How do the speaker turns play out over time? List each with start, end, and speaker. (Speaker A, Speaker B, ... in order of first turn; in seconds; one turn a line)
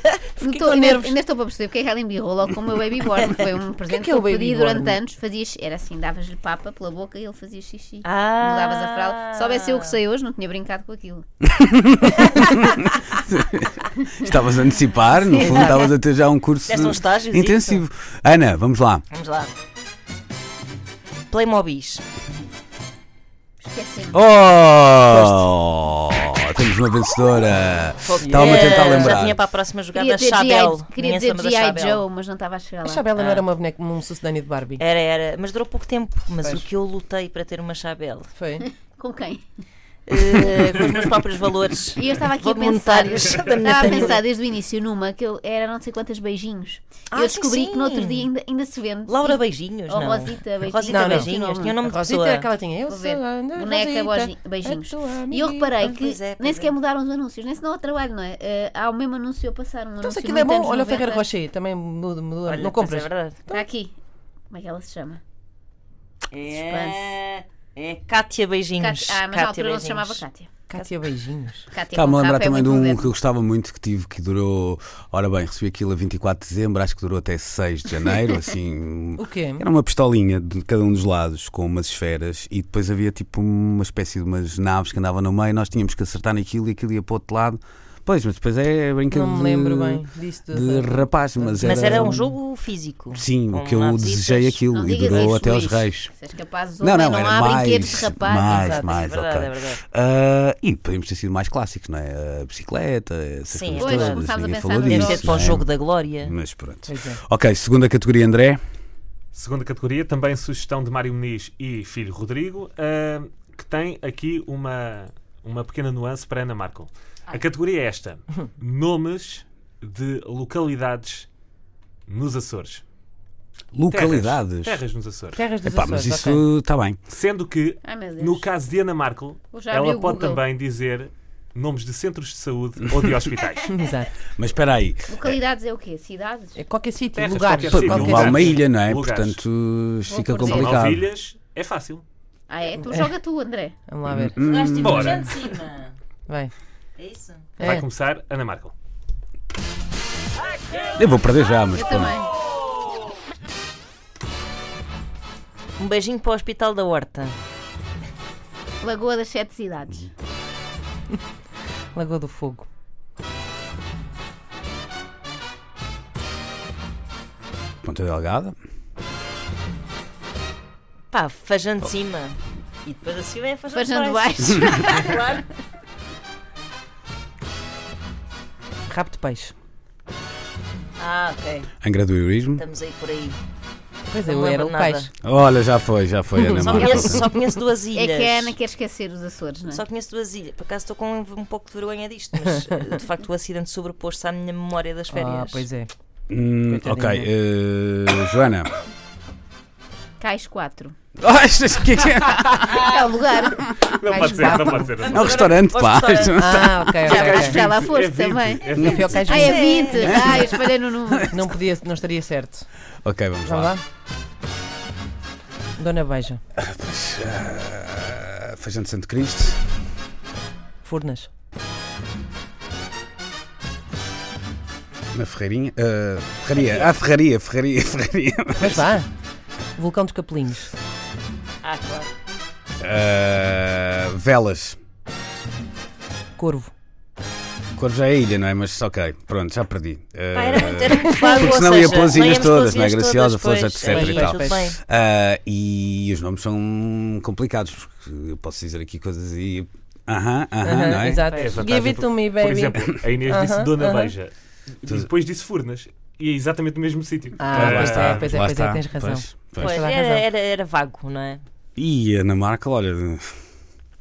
Speaker A: 0.4-11.2
Speaker B: 0.4-1.1
Speaker B: 3.9-5.0
Speaker C: 8.0-9.9
Speaker D: 11.5-19.0
Speaker C: 15.2-15.9
Speaker C: 16.7-17.8
Speaker C: 19.1-19.5
Speaker C: 21.3-22.0
Speaker A: 23.6-24.2
Speaker D: 24.1-29.4
Speaker B: 25.1-25.4
Speaker C: 28.1-32.0
Speaker B: 28.3-29.2
Speaker A: 29.9-33.0
Speaker B: 32.8-34.8
Speaker C: 33.1-33.5
Speaker C: 34.8-38.3
Speaker B: 38.3-38.7
Speaker A: 38.9-39.4
Speaker C: 40.1-44.2
Speaker A: 40.1-40.7
Speaker A: 41.9-51.8
Speaker C: 47.1-48.3
Speaker C: 49.0-52.5
Speaker B: 50.9-51.3
Speaker B: 51.8-55.8
Speaker A: 52.9-61.3
Speaker C: 55.8-56.7
Speaker B: 60.0-63.6
Speaker C: 62.5-63.4
Speaker A: 63.5-63.9
Speaker A: 64.5-65.2
Speaker C: 66.3-70.2
Speaker A: 66.5-67.1
Speaker A: 68.8-70.5
Speaker B: 70.7-71.7
Speaker A: 71.7-73.1
Speaker D: 71.9-92.3
Speaker B: 79.2-79.7
Speaker B: 89.1-92.3
Speaker C: 91.6-94.6
Speaker D: 93.1-96.1
Speaker A: 94.7-99.0
Speaker D: 96.8-108.6
Speaker C: 98.5-99.8
Speaker C: 103.5-104.2
Speaker A: 103.8-105.6
Speaker C: 104.8-106.3
Speaker B: 106.9-107.2
Speaker E: 109.3-121.3
Speaker E: 122.1-122.8
Speaker D: 123.7-124.8
Speaker E: 123.9-125.4
Speaker B: 125.3-126.4
Speaker D: 125.6-127.0
Speaker E: 127.1-133.7
Speaker A: 127.8-128.5
Speaker A: 129.5-130.4
Speaker B: 133.7-134.1
Speaker D: 134.3-135.4
Speaker A: 135.1-136.6
Speaker B: 136.6-138.6
Speaker E: 137.1-139.4
Speaker D: 137.4-141.1
Speaker A: 140.1-140.8
Speaker E: 140.4-142.0
Speaker A: 142.5-143.8
Speaker B: 143.9-144.4
Speaker D: 144.1-145.2
Speaker C: 144.4-145.9
Speaker E: 144.7-145.3
Speaker B: 146.3-146.5
Speaker C: 147.0-147.7
Speaker B: 147.6-147.8
Speaker E: 147.6-148.7
Speaker D: 151.0-152.1
Speaker A: 151.7-152.3
Speaker C: 155.8-157.3
Speaker A: 158.8-160.1
Speaker B: 161.9-162.7
Speaker D: 167.8-168.6
Speaker C: 171.1-175.4
Speaker A: 173.7-175.4
Speaker B: 178.9-179.5
Speaker C: 181.0-181.7
Speaker D: 181.8-182.6
Speaker C: 182.6-183.4
Speaker B: 184.1-185.1
Speaker C: 184.2-185.1
Speaker D: 185.2-187.3
Speaker B: 186.3-186.9
Speaker C: 186.5-188.5
Speaker A: 187.9-189.8
Speaker C: 189.7-195.7
Speaker B: 195.1-195.9
Speaker D: 196.3-198.7
Speaker B: 196.6-197.3
Speaker A: 200.2-200.9
Speaker D: 201.2-202.8
Speaker E: 202.6-203.1
Speaker A: 202.7-203.7
Speaker E: 203.7-205.5
Speaker B: 204.1-204.9
Speaker D: 205.0-207.2
Speaker C: 205.1-206.5
Speaker B: 206.3-207.6
Speaker E: 207.0-209.4
Speaker A: 207.1-211.3
Speaker D: 208.7-209.2
Speaker B: 208.8-209.9
Speaker C: 209.3-210.4
Speaker D: 209.9-210.6
Speaker B: 211.3-212.7
Speaker D: 213.0-213.7
Speaker B: 213.4-213.8
Speaker B: 215.8-216.4
Speaker D: 216.6-219.8
Speaker B: 220.8-221.3
Speaker D: 225.1-228.9
Speaker B: 228.6-229.1
Speaker B: 229.8-230.7
Speaker C: 231.6-232.1
Speaker D: 232.8-234.8
Speaker B: 236.4-236.7
Speaker D: 237.8-251.3
Speaker C: 240.3-244.8
Speaker B: 241.2-241.4
Speaker B: 243.8-244.7
Speaker B: 250.6-254.1
Speaker E: 251.3-258.3
Speaker B: 257.4-260.3
Speaker D: 257.5-259.9
Speaker C: 259.6-261.4
Speaker D: 261.8-263.4